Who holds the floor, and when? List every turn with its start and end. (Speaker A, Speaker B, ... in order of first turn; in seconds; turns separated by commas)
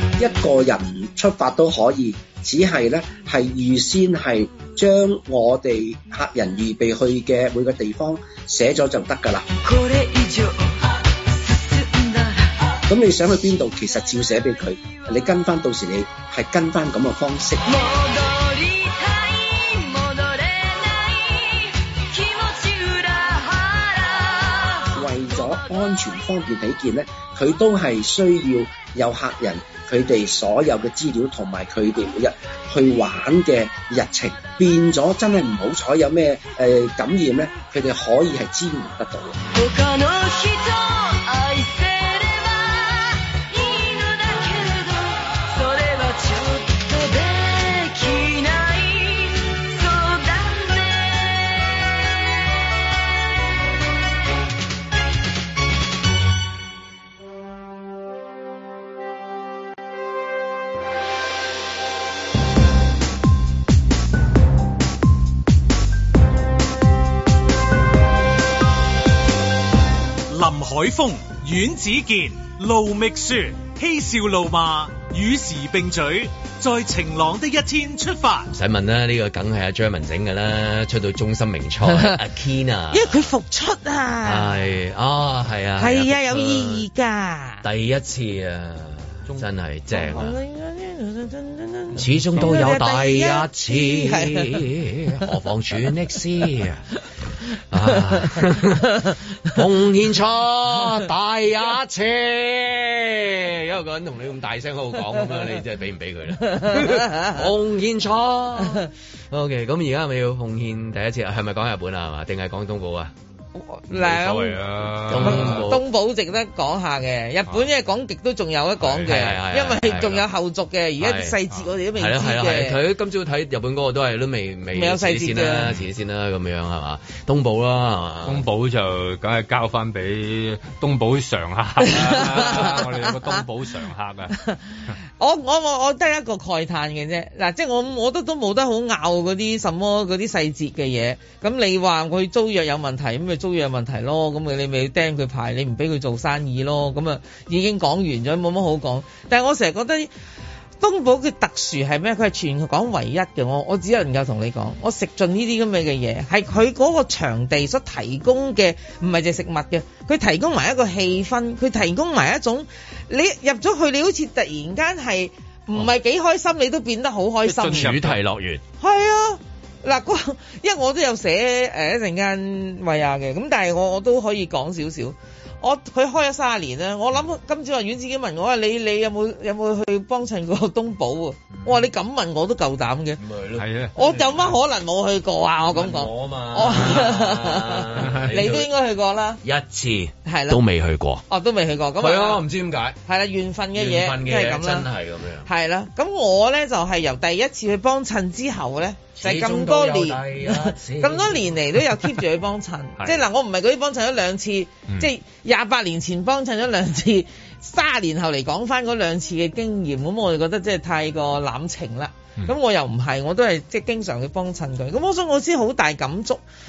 Speaker A: 0.2-9.5, Speaker B: 9.6-12.8, Speaker A: 12.9-17.6, Speaker B: 17.7-25.6, Speaker A: 24.9-39.4, Speaker B: 39.5-52.8, Speaker C: 70.3-78.5, Speaker D: 78.5-83.3, Speaker E: 81.9-82.2, Speaker E: 82.9-84.7, Speaker D: 84.2-86.9, Speaker E: 85.8-87.6, Speaker D: 87.6-90.4, Speaker E: 89.9-94.6, Speaker D: 92.0-96.9, Speaker D: 97.7-113.1, Speaker E: 106.5-107.4, Speaker E: 113.6-122.8, Speaker F: 113.9-115.7, Speaker D: 115.0-115.8, Speaker F: 118.8-119.1, Speaker D: 119.0-120.3, Speaker D: 121.0-121.4, Speaker D: 122.0-128.4, Speaker E: 124.7-125.7, Speaker F: 128.2-134.3, Speaker E: 131.8-133.4, Speaker E: 135.2-150.1, Speaker E: 150.8-167.9, Speaker F: 167.5-168.2, Speaker D: 167.6-168.6, Speaker E: 168.8-183.2, Speaker D: 181.5-181.8, Speaker D: 183.2-184.5, Speaker F: 183.6-183.9, Speaker E: 183.9-189.4, Speaker D: 185.7-188.7, Speaker F: 188.0-188.5, Speaker D: 189.4-191.2, Speaker E: 190.3-190.6, Speaker E: 191.3-192.4, Speaker D: 192.0-193.0, Speaker E: 193.1-194.9, Speaker D: 193.7-195.5, Speaker E: 195.5-216.4, Speaker D: 199.2-201.6